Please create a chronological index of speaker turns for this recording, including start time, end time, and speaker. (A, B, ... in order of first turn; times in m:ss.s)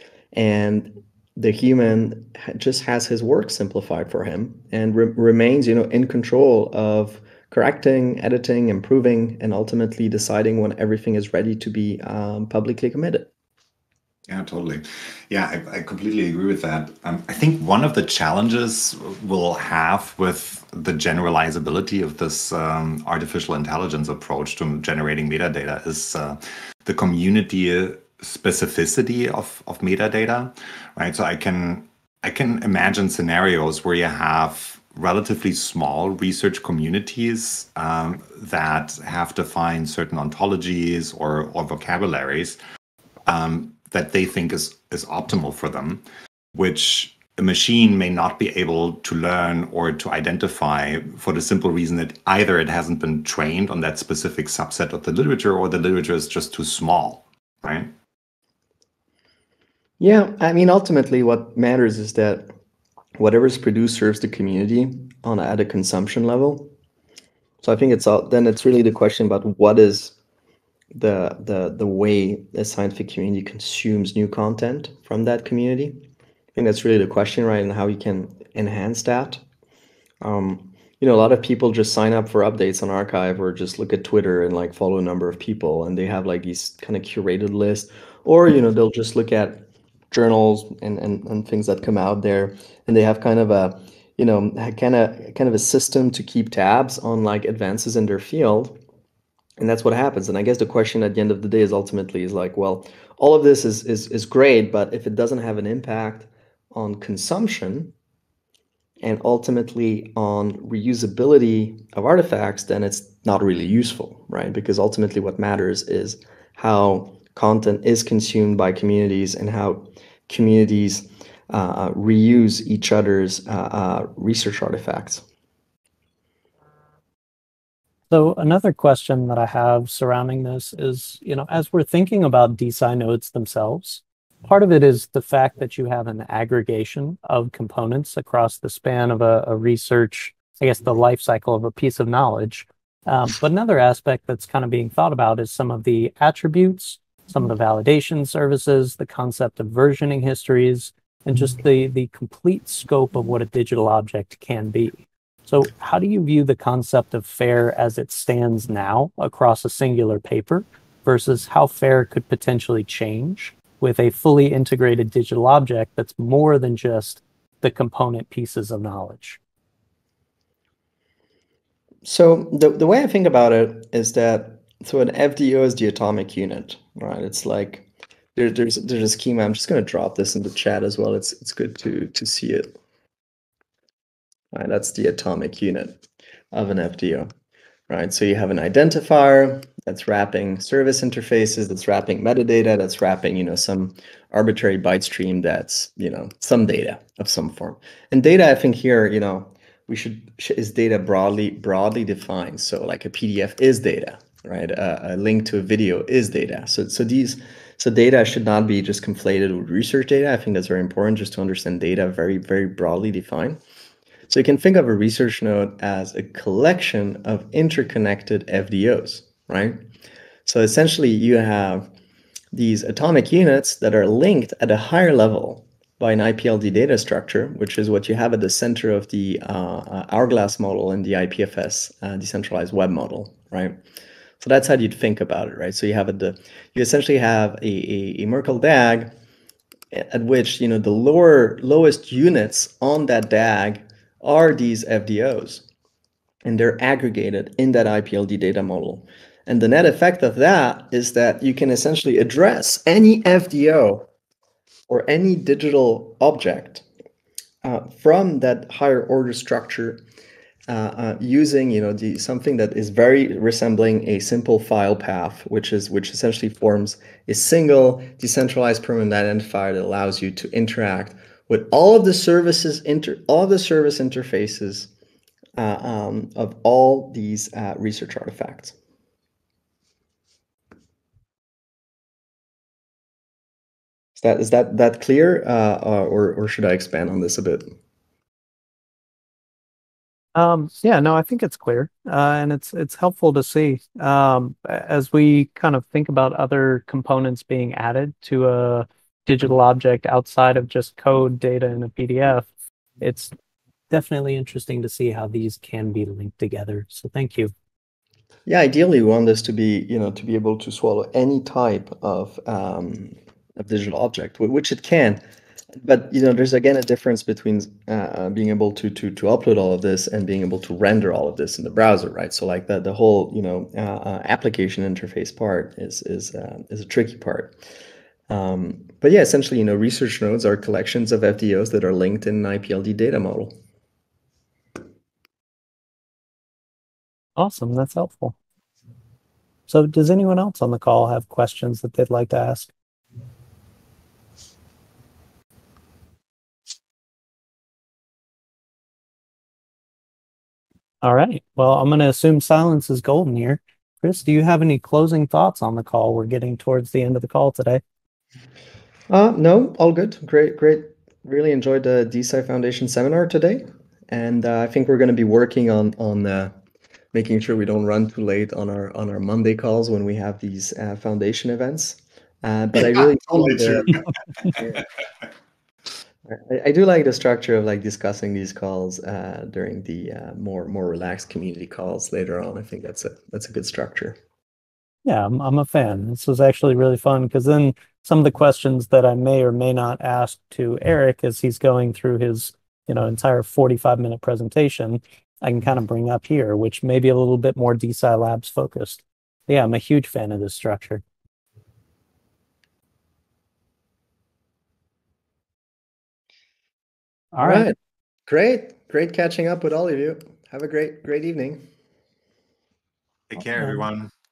0:00.3-0:13.3 A
0:14.3-0:42.6 B
0:43.2-0:46.0 B
0:46.5-0:57.9 B
1:00.0-1:02.5 A
1:03.2-1:06.7 A
1:07.6-1:10.1 A
1:10.9-1:16.0 A
1:16.5-1:19.4 A
1:20.2-1:38.8 A
1:39.6-1:47.9 A
1:49.0-2:05.2 A
2:08.1-2:49.4 C
2:52.0-3:02.7 A
3:04.5-3:07.3 A
3:07.9-3:33.6 A
3:34.3-3:39.8 A
3:40.4-3:41.9 A
3:42.5-3:53.8 A
3:54.4-3:59.1 A
3:59.9-4:05.6 A
4:06.4-4:14.1 A
4:14.9-4:16.8 A
4:17.6-4:20.0 A
4:20.7-4:34.9 A
4:35.6-4:38.7 A
4:44.2-4:47.7 A
4:50.3-5:03.3 C
5:03.9-5:07.5 C
5:08.4-5:15.2 A
5:15.8-5:27.6 A
5:28.3-5:33.5 A
5:37.4-5:38.3 C
5:39.7-5:42.7 C
5:51.0-5:57.8 C
5:59.1-6:06.5 A
6:07.1-6:14.0 A
6:13.5-6:14.0 B
6:14.5-6:14.8 A
6:16.2-6:24.2 A
6:25.0-6:41.0 C
6:47.3-6:47.7 C
6:47.4-6:47.8 A
6:48.3-6:51.6 A
6:53.3-6:54.1 B
6:53.4-6:53.8 C